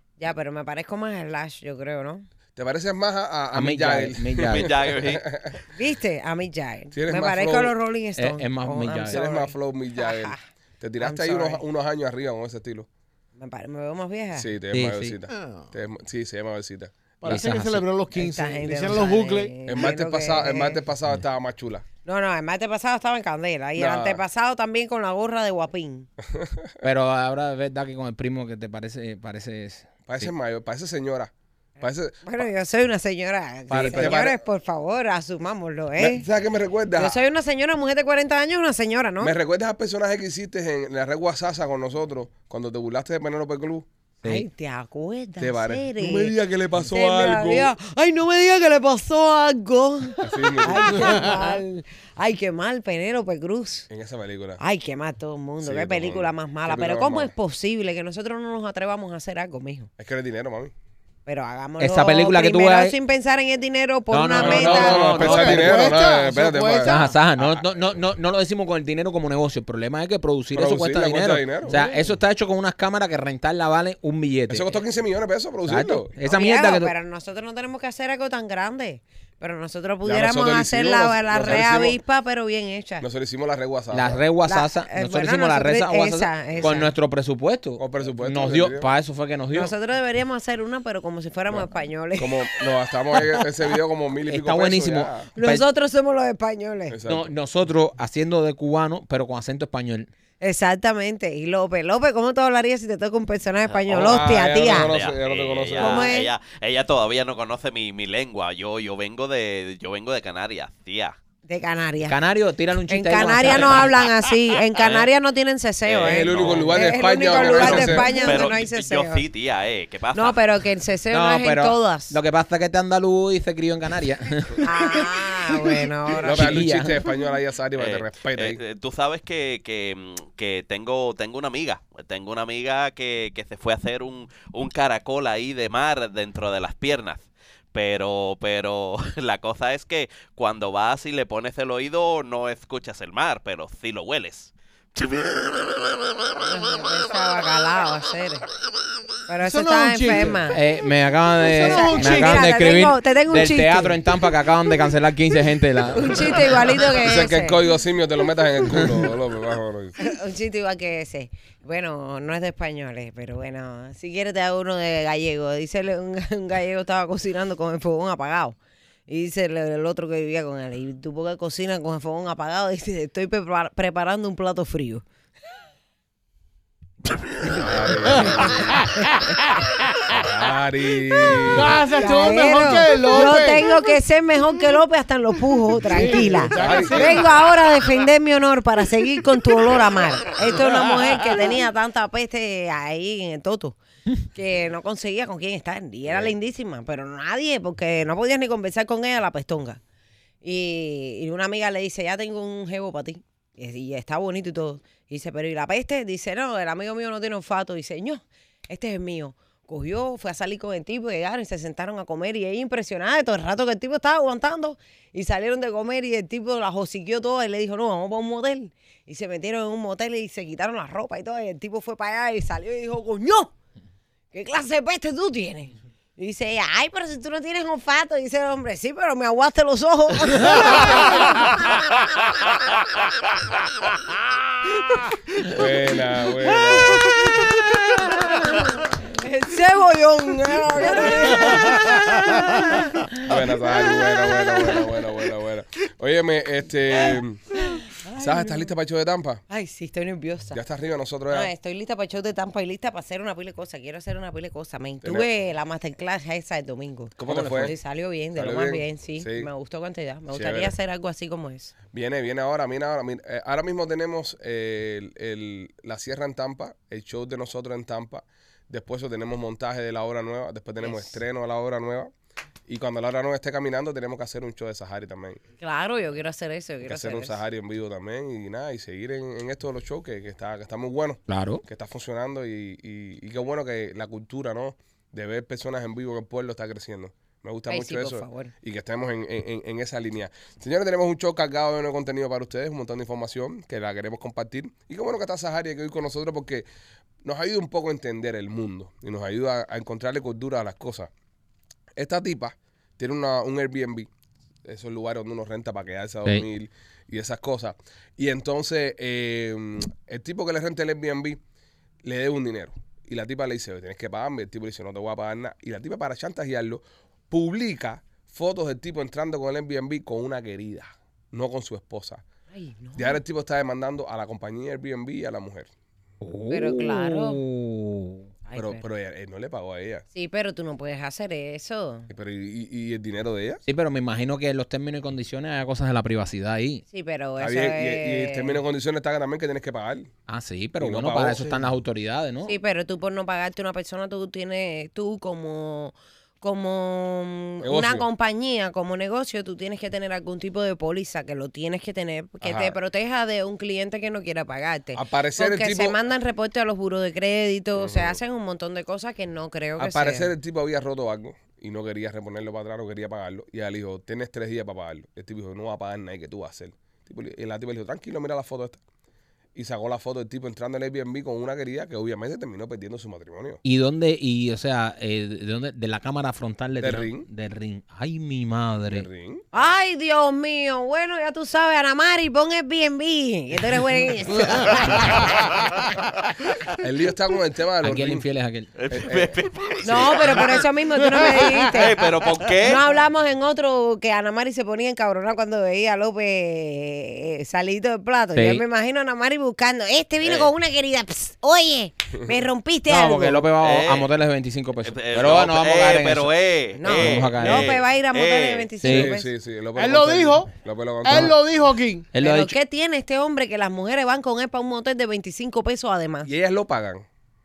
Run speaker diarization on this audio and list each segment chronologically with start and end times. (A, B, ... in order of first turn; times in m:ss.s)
0:00.2-0:02.3 A
0:02.6-0:05.6 B
0:03.5-0:04.7 C
0:04.4-0:05.3 D
0:05.7-0:10.4 A
0:06.9-0:07.8 B
0:08.2-0:09.2 C
0:09.1-0:12.9 B
0:11.0-0:11.6 A
0:13.4-0:14.5 A
0:14.4-0:16.9 B
0:14.7-0:15.2 C
0:15.3-0:15.7 E
0:17.2-0:19.6 E
0:17.2-0:17.9 C
0:18.2-0:20.8 A
0:19.6-0:21.8 B
0:22.0-0:26.1 A
0:23.8-0:24.2 B
0:26.3-0:26.8 B
0:26.8-0:30.3 C
0:30.1-0:32.5 B
0:32.2-0:36.2 A
0:33.7-0:34.4 B
0:33.7-0:34.2 C
0:36.0-0:37.2 B
0:37.0-0:39.3 A
0:39.2-0:43.9 B
0:44.2-0:44.5 C
0:44.2-0:53.9 A
0:45.4-0:47.7 B
0:50.2-0:51.3 B
0:53.9-0:54.6 B
0:54.6-0:59.9 A
0:55.6-0:57.3 B
1:00.0-1:00.7 B
1:01.3-1:05.2 A
1:01.8-1:03.0 C
1:04.1-1:05.8 C
1:04.3-1:07.7 B
1:04.9-1:07.0 E
1:06.8-1:14.7 C
1:10.5-1:11.8 B
1:14.5-1:16.1 B
1:15.7-1:16.9 C
1:16.2-1:23.1 A
1:20.0-1:22.0 B
1:23.0-1:24.2 B
1:23.9-1:29.7 C
1:24.5-1:26.9 A
1:27.8-1:28.9 B
1:29.5-1:32.5 A
1:32.2-1:35.3 B
1:34.3-1:35.7 C
1:35.4-1:37.0 A
1:36.9-1:37.3 B
1:37.1-1:40.1 C
1:40.4-1:44.9 A
1:43.7-1:51.2 D
1:43.9-1:46.1 B
1:45.8-1:46.3 A
1:51.5-1:52.2 A
1:52.1-1:54.1 C
1:52.9-1:59.2 A
1:54.8-1:55.1 D
1:55.9-2:00.4 D
1:56.0-1:58.2 B
2:00.1-2:02.2 A
2:01.1-2:04.6 C
2:04.6-2:06.6 A
2:06.2-2:07.0 C
2:06.2-2:08.6 B
2:07.8-2:26.0 D
2:26.4-2:28.4 A
2:29.3-2:30.6 A
2:29.4-2:30.5 E
2:30.5-2:36.7 C
2:31.4-2:32.5 E
2:31.6-2:34.0 A
2:35.9-2:37.6 A
2:36.9-2:40.0 B
2:40.0-2:48.6 A
2:49.1-2:55.0 A
2:57.5-2:58.8 B
2:58.1-3:00.1 E
2:58.4-2:58.7 A
3:00.1-3:01.7 B
3:01.4-3:03.8 E
3:02.0-3:13.8 A
3:05.8-3:07.8 E
3:06.5-3:07.2 B
3:10.5-3:11.5 E
3:14.3-3:19.8 A
3:16.0-3:16.3 B
3:20.4-3:43.5 A
3:44.3-3:52.8 A
3:55.4-3:57.2 B
3:58.0-4:03.4 A
4:03.2-4:07.5 B
4:04.5-4:04.9 A
4:07.1-4:08.7 A
4:08.2-4:09.4 B
4:09.5-4:10.6 A
4:10.5-4:11.5 B
4:11.3-4:21.7 A
4:15.0-4:15.3 B
4:17.2-4:17.8 B
4:17.3-4:17.7 C
4:18.4-4:19.5 B
4:20.3-4:20.7 B
4:21.9-4:32.1 B
4:30.8-4:31.2 A
4:32.7-4:35.4 B
4:35.6-4:37.4 A
4:36.8-4:56.7 B
4:41.3-4:41.6 C
4:47.7-4:48.5 A
4:57.2-5:01.1 B
5:02.0-5:04.1 B
5:04.6-5:11.4 B
5:12.0-5:22.2 B
5:22.5-5:23.2 A
5:23.0-5:25.7 B
5:26.2-5:28.3 C
5:26.5-5:27.4 A
5:28.5-5:28.8 A
5:28.6-5:30.0 B
5:30.1-5:32.1 A
5:32.1-5:33.6 B
5:33.7-5:36.8 C
5:36.9-5:38.6 A
5:37.4-5:40.1 B
5:40.3-5:42.6 C
5:40.8-5:41.7 B
5:42.4-6:00.3 A
5:47.6-5:48.1 B
5:52.4-5:52.8 B
5:55.0-5:56.0 B
5:57.8-5:58.2 B
5:59.8-6:08.8 B
6:09.6-6:13.6 B
6:13.6-6:19.1 C
6:16.8-6:17.3 B
6:18.9-6:19.5 B
6:19.5-6:25.9 A
6:26.7-6:28.3 B
6:27.8-6:28.7 C
6:28.8-6:30.7 D
6:28.9-6:29.4 B
6:29.8-6:43.5 A
6:31.2-6:32.9 D
6:38.3-6:38.6 C
6:40.2-6:40.5 D
6:42.9-6:46.3 C
6:43.6-6:44.1 D
6:44.8-6:48.7 D
6:46.8-6:49.3 A
6:46.8-6:47.8 C
6:48.8-6:49.1 C
6:48.8-6:51.4 B
6:49.8-6:50.5 E
6:51.0-6:52.1 E
6:52.1-6:52.6 C
6:52.2-6:56.3 A
6:56.2-6:57.0 B